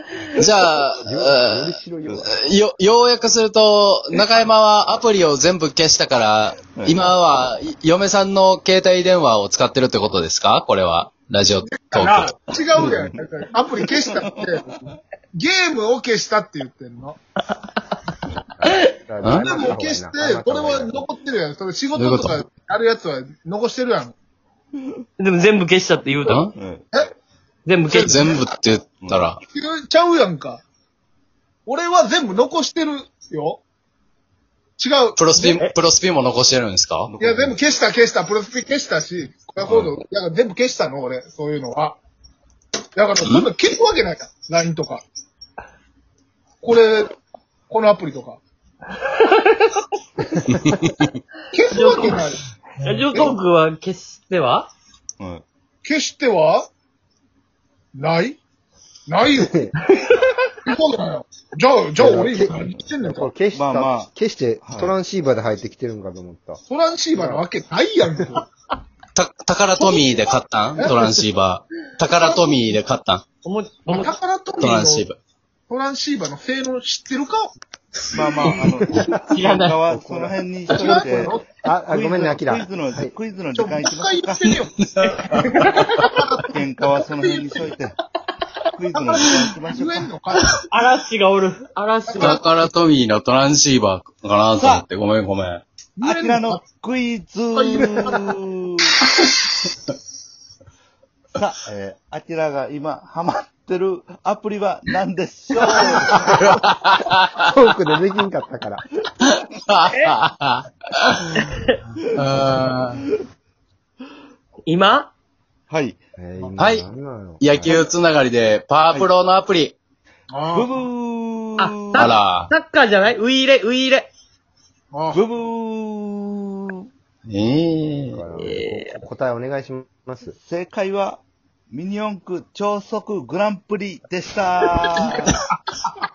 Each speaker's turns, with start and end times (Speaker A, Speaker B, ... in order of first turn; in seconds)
Speaker A: 0.4-12.3, 19.2-19.6, 22.0-22.4, 26.2-26.5, 27.9-29.4, 35.2-37.1, 50.6-51.1, 69.2-73.2, 74.6-75.2, 85.0-85.8, 92.2-95.6, 106.4-107.3, 109.2-111.4, 112.1-113.0, 116.6-116.9, 117.4-119.7, 122.0-122.5, 127.3-128.2
Speaker B: 1.0-2.3, 18.6-21.0, 50.3-50.8, 59.4-59.7, 62.0-66.6, 67.2-67.5, 78.7-79.1, 79.9-83.1, 107.4-108.8, 116.2-117.9, 128.1-130.3
Speaker C: 6.8-7.1, 12.6-13.2, 14.0-15.0, 26.6-26.9, 37.1-37.6, 55.2-55.4, 63.5-64.1, 64.6-65.0, 78.1-81.3, 81.9-84.5, 86.4-88.0, 88.7-90.1, 94.6-94.9, 96.0-98.9, 101.3-106.5, 115.7-116.0, 120.5-122.2, 125.1-126.8, 130.4-135.4
Speaker D: 11.6-17.2, 19.3-24.1, 27.9-28.5, 29.4-30.6, 31.7-33.6, 34.8-35.6, 37.2-42.0, 43.0-45.0, 46.6-47.2, 47.7-48.4, 51.5-52.4, 53.1-53.4, 55.8-56.7, 58.0-58.4, 59.1-59.7, 60.6-63.3, 66.7-68.5, 69.8-70.3, 70.8-71.1, 72.0-72.8, 73.9-75.1, 75.7-77.5, 80.7-81.5, 83.5-86.5, 89.0-89.2, 89.7-90.7, 92.1-92.4, 96.0-96.6, 97.5-98.4, 120.3-120.8, 124.9-125.2
Speaker E: 18.6-18.9, 25.2-26.5, 27.7-28.2, 49.0-49.8, 51.7-54.7, 59.9-60.3, 73.4-74.2, 79.1-79.8, 85.7-86.0, 90.5-92.4, 111.4-111.8, 114.7-115.1, 121.6-124.1, 128.4-129.0